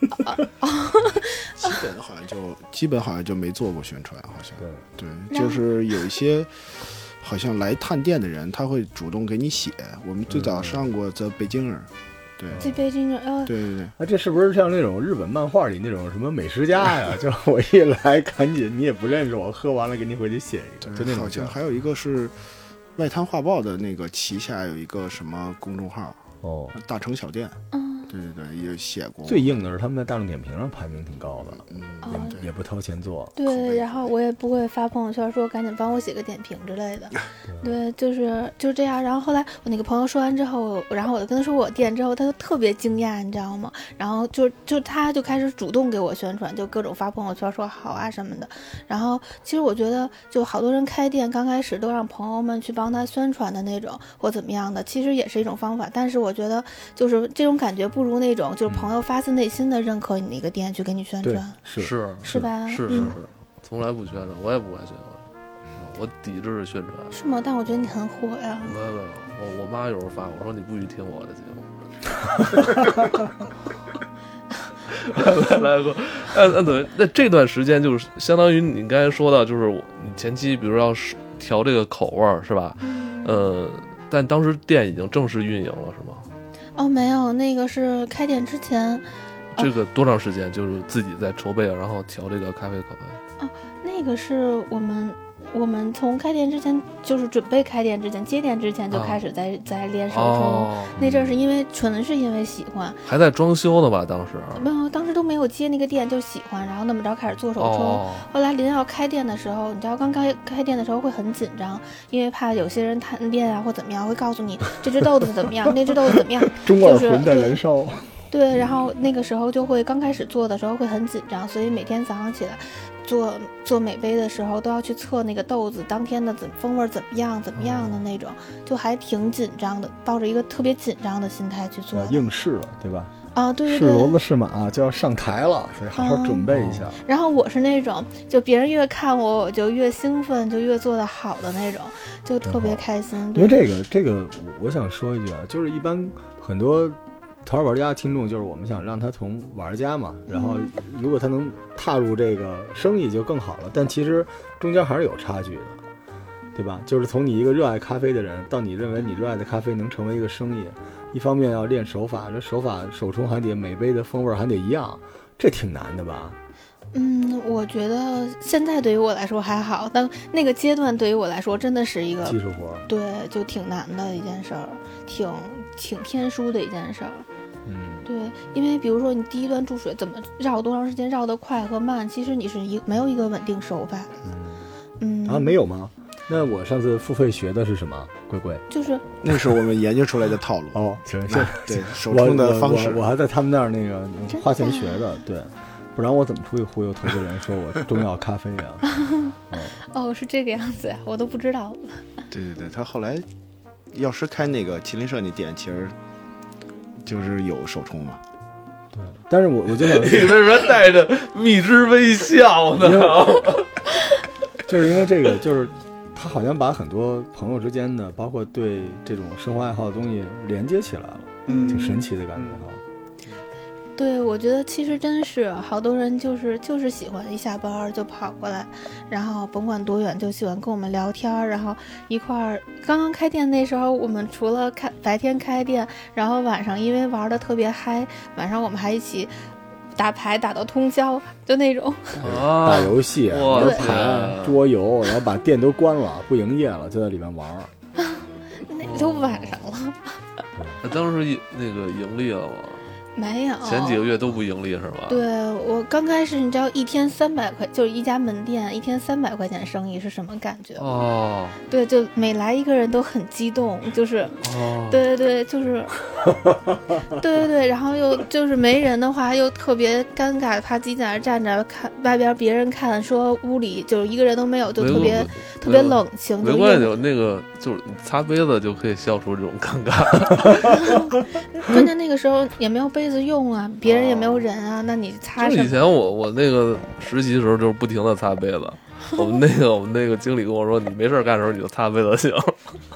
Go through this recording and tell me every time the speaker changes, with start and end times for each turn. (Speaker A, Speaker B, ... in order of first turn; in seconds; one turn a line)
Speaker A: 0.2-1.7
Speaker B: 1.6-12.7
Speaker A: 5.3-5.6
Speaker C: 10.3-10.9
Speaker C: 12.5-12.8
Speaker A: 12.6-13.5
Speaker B: 13.5-13.9
Speaker C: 14.0-21.6
Speaker B: 20.8-22.4
Speaker B: 23.0-29.5
Speaker C: 26.4-26.8
Speaker A: 27.7-28.1
Speaker C: 29.2-33.4
Speaker B: 31.5-32.5
Speaker A: 32.0-32.4
Speaker A: 33.4-61.6
Speaker B: 33.5-34.1
Speaker C: 37.5-37.7
Speaker C: 61.2-63.2
Speaker D: 61.8-67.1
Speaker A: 62.2-63.2
Speaker A: 67.1-68.8
Speaker D: 68.7-73.0
Speaker D: 74.9-86.3
Speaker A: 82.8-83.5
Speaker A: 86.8-89.7
Speaker D: 89.6-93.2
Speaker A: 93.4-103.0
Speaker D: 98.9-99.2
Speaker D: 100.1-101.0
Speaker C: 101.0-101.3
Speaker D: 103.1-104.7
Speaker A: 104.6-117.6
Speaker D: 107.6-108.3
Speaker C: 116.5-118.1
Speaker A: 118.3-132.2
Speaker D: 127.6-128.0
Speaker C: 131.9-133.1
Speaker A: 133.3-134.2
Speaker C: 133.7-137.0
Speaker A: 135.9-136.5
Speaker D: 136.5-136.9
Speaker A: 137.0-143.6
Speaker C: 142.4-155.8
Speaker A: 150.3-150.7
Speaker C: 156.5-166.4
Speaker A: 166.9-177.3
Speaker C: 172.2-172.9
Speaker C: 177.7-178.1
Speaker A: 178.1-184.3
Speaker C: 184.2-184.7
Speaker A: 185.0-185.6
Speaker C: 185.2-188.7
Speaker A: 188.7-189.0
Speaker B: 189.2-193.0
Speaker C: 189.3-189.6
Speaker C: 190.7-198.9
Speaker A: 194.3-195.2
Speaker A: 198.9-202.1
Speaker C: 199.5-199.8
Speaker B: 202.3-203.3
Speaker B: 203.9-205.9
Speaker B: 207.0-208.2
Speaker C: 208.9-210.4
Speaker D: 209.8-213.9
Speaker C: 212.8-213.3
Speaker C: 214.7-222.8
Speaker A: 221.5-222.1
Speaker A: 224.0-239.3
Speaker A: 239.9-242.2
Speaker D: 242.2-244.6
Speaker C: 242.2-247.7
Speaker A: 243.5-244.2
Speaker A: 248.0-250.2
Speaker D: 248.8-249.6
Speaker D: 250.8-252.9
Speaker A: 253.2-254.1
Speaker D: 253.6-255.3
Speaker A: 255.1-260.9
Speaker D: 260.8-261.6
Speaker A: 261.7-265.9
Speaker D: 264.4-265.0
Speaker A: 267.1-276.9
Speaker D: 274.8-281.0
Speaker C: 274.9-275.2
Speaker A: 280.6-285.9
Speaker D: 283.9-284.5
Speaker D: 285.4-292.8
Speaker A: 289.1-289.4